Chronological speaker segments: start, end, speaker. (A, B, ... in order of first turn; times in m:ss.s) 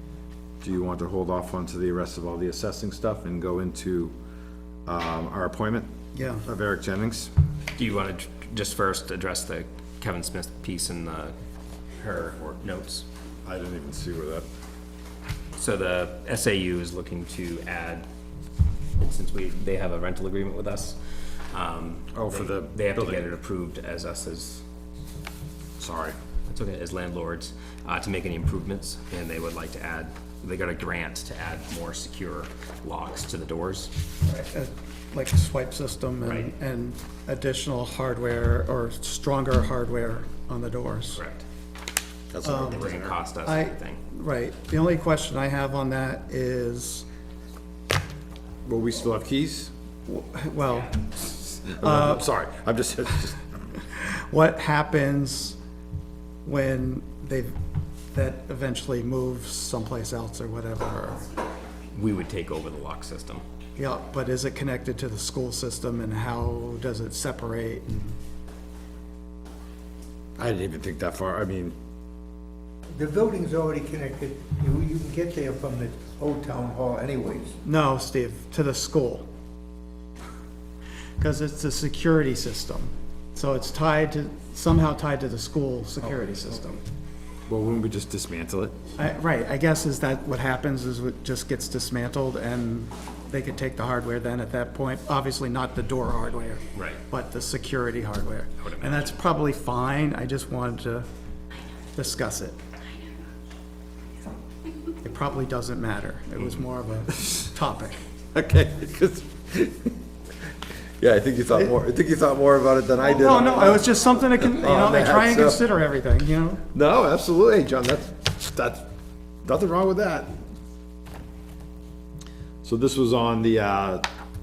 0:00.6-0:04.1 A
0:04.9-0:05.9 A
0:06.1-0:06.4 B
0:06.4-0:07.3 A
0:07.8-0:11.3 C
0:12.0-0:13.1 C
0:13.4-0:14.5 A
0:15.6-0:18.1 C
0:19.0-0:24.6 C
0:22.2-0:23.2 A
0:25.8-0:26.2 A
0:26.5-0:33.9 C
0:34.3-0:41.2 B
0:36.2-0:36.5 C
0:41.1-0:41.4 C
0:42.3-0:43.2 A
0:42.4-0:42.8 B
0:42.5-0:44.0 C
0:43.4-0:47.0 B
0:48.6-0:49.7 A
0:50.1-0:52.2 B
0:51.7-0:53.4 A
0:54.0-0:55.6 B
0:56.4-0:57.5 B
0:58.1-1:01.2 B
1:01.9-1:03.4 C
1:03.8-1:08.2 B
1:10.4-1:11.8 A
1:12.9-1:17.5 D
1:17.6-1:19.3 B
1:21.2-1:26.8 B
1:27.5-1:28.8 A
1:29.0-1:41.1 B
1:36.7-1:37.0 C
1:38.6-1:39.2 C
1:41.9-1:42.6 B
1:45.0-1:48.0 B
1:48.3-1:49.9 A
1:51.0-1:53.9 A
1:53.0-1:56.6 B
1:54.4-1:55.6 A
1:56.7-1:58.8 A
1:59.4-2:00.4 A
2:02.6-2:04.1 A